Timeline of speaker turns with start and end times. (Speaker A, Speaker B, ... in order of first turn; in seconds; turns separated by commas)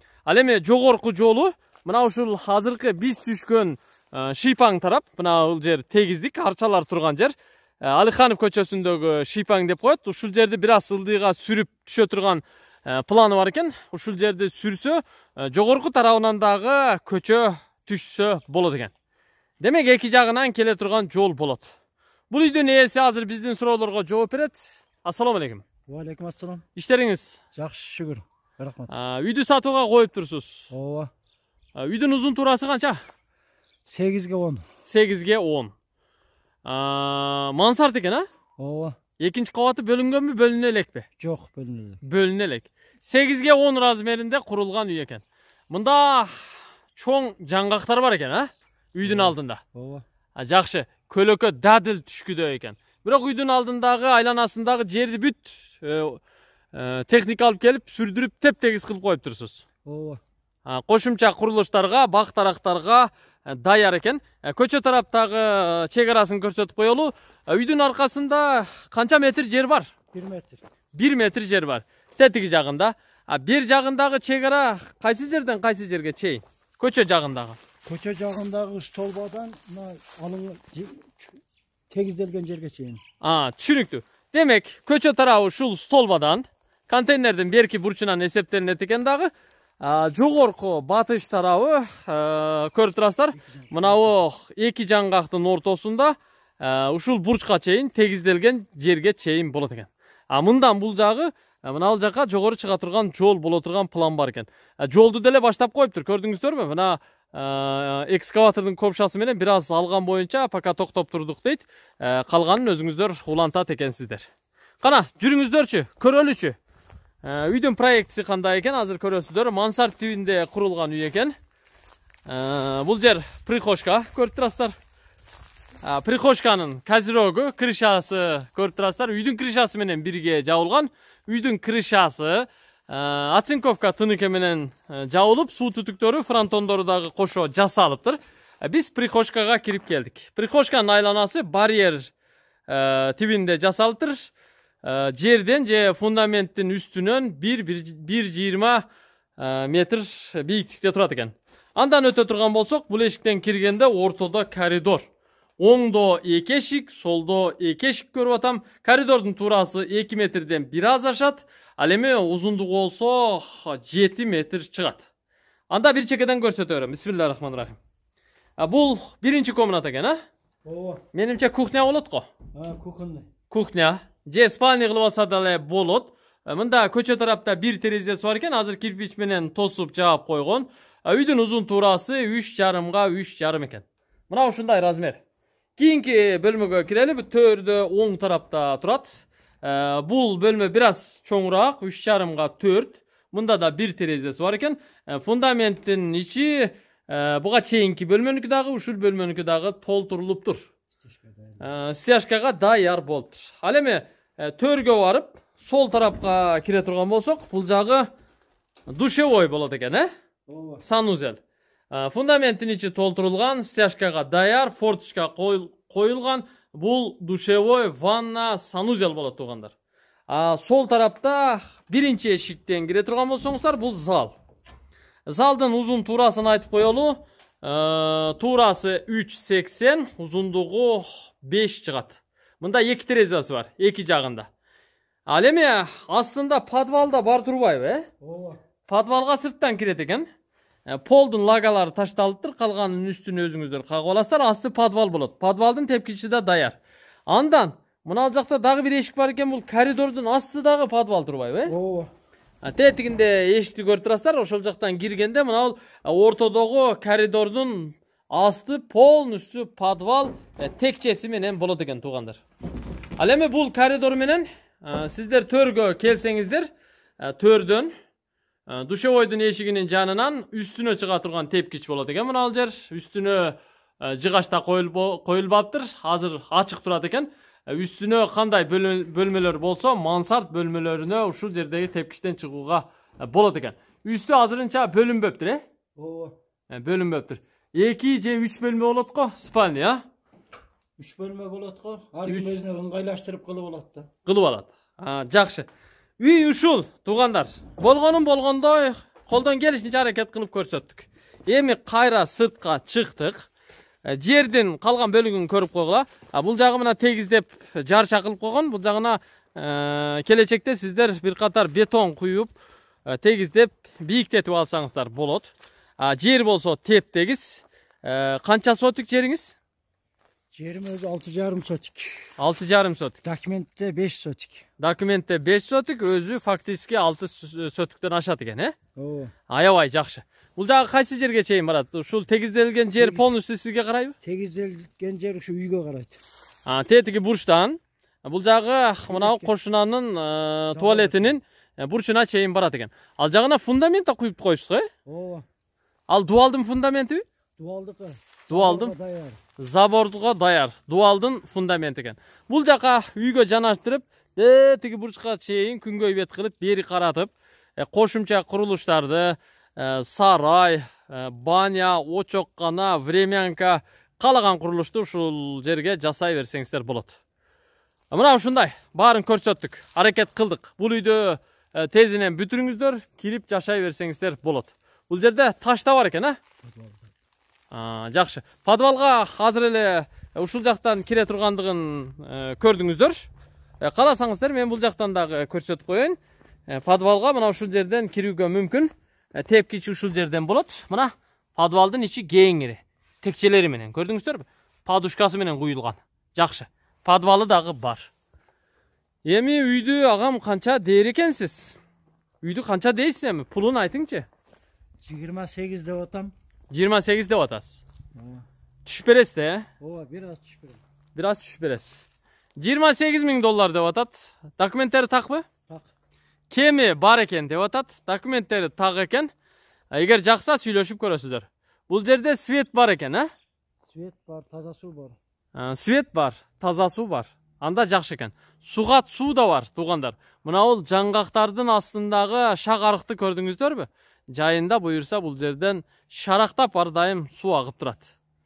Speaker A: 0.2-18.9, Speaker A: 19.6-21.7, Speaker A: 22.3-25.6, Speaker B: 25.9-26.6, Speaker A: 26.8-27.4, Speaker B: 27.5-28.9, Speaker A: 28.9-30.7, Speaker B: 30.7-31.1, Speaker A: 31.7-33.0, Speaker B: 33.9-34.6, Speaker A: 34.8-35.7, Speaker A: 36.6-38.3, Speaker B: 38.6-39.0, Speaker A: 39.2-41.0, Speaker B: 41.2-42.0, Speaker A: 42.0-49.6, Speaker B: 49.0-50.0, Speaker A: 50.4-56.2, Speaker A: 56.7-59.6, Speaker B: 59.8-60.2, Speaker A: 60.6-69.9, Speaker B: 70.1-70.6, Speaker A: 70.9-77.6, Speaker B: 77.8-81.3, Speaker B: 81.9-83.0, Speaker A: 83.2-89.3, Speaker A: 89.8-114.3, Speaker B: 93.3-94.2, Speaker A: 114.8-116.5, Speaker A: 117.2-121.3, Speaker A: 122.2-124.7, Speaker A: 125.8-142.1, Speaker A: 142.7-144.3, Speaker A: 144.8-148.8, Speaker A: 149.4-155.1, Speaker A: 155.6-165.0, Speaker A: 165.7-167.8, Speaker A: 168.6-170.2, Speaker B: 170.6-171.0, Speaker A: 171.1-172.3, Speaker B: 172.5-173.3, Speaker A: 173.5-185.2, Speaker A: 185.8-200.7, Speaker B: 201.0-201.6, Speaker A: 201.6-208.1, Speaker A: 208.9-210.1, Speaker B: 210.5-210.8, Speaker A: 210.8-211.4, Speaker A: 211.9-219.7, Speaker A: 220.3-224.3, Speaker A: 225.2-234.5, Speaker A: 235.3-238.1, Speaker B: 238.2-238.6, Speaker A: 238.9-240.2, Speaker A: 240.9-251.7, Speaker B: 251.7-252.1, Speaker A: 252.6-262.4, Speaker A: 263.2-266.7, Speaker A: 267.2-267.9, Speaker A: 268.7-285.6, Speaker B: 285.9-286.3, Speaker A: 286.7-290.0, Speaker B: 291.0-294.1, Speaker A: 292.2-292.6, Speaker A: 294.2-295.7, Speaker A: 296.2-303.5, Speaker A: 304.0-312.5, Speaker A: 313.1-319.6, Speaker B: 320.5-322.3, Speaker A: 322.4-323.2, Speaker B: 323.2-324.6, Speaker A: 324.8-328.7, Speaker B: 328.9-329.3, Speaker A: 329.5-334.1, Speaker B: 333.0-333.3, Speaker B: 334.2-336.2, Speaker A: 336.6-344.9, Speaker B: 339.1-339.5, Speaker B: 340.7-341.4, Speaker B: 345.1-345.4, Speaker A: 346.1-347.2, Speaker B: 347.6-349.4, Speaker A: 348.5-348.9, Speaker A: 349.6-367.2, Speaker A: 368.1-376.4, Speaker B: 376.6-377.1, Speaker A: 377.7-383.3, Speaker A: 383.8-398.1, Speaker A: 399.2-401.8, Speaker A: 402.4-404.2, Speaker B: 405.0-406.3, Speaker A: 406.7-407.8, Speaker B: 408.1-408.4, Speaker A: 408.8-409.6, Speaker B: 409.8-410.8, Speaker A: 411.1-412.0, Speaker A: 412.6-415.4, Speaker A: 416.5-419.3, Speaker A: 419.9-423.3, Speaker B: 423.9-425.1, Speaker A: 425.5-438.1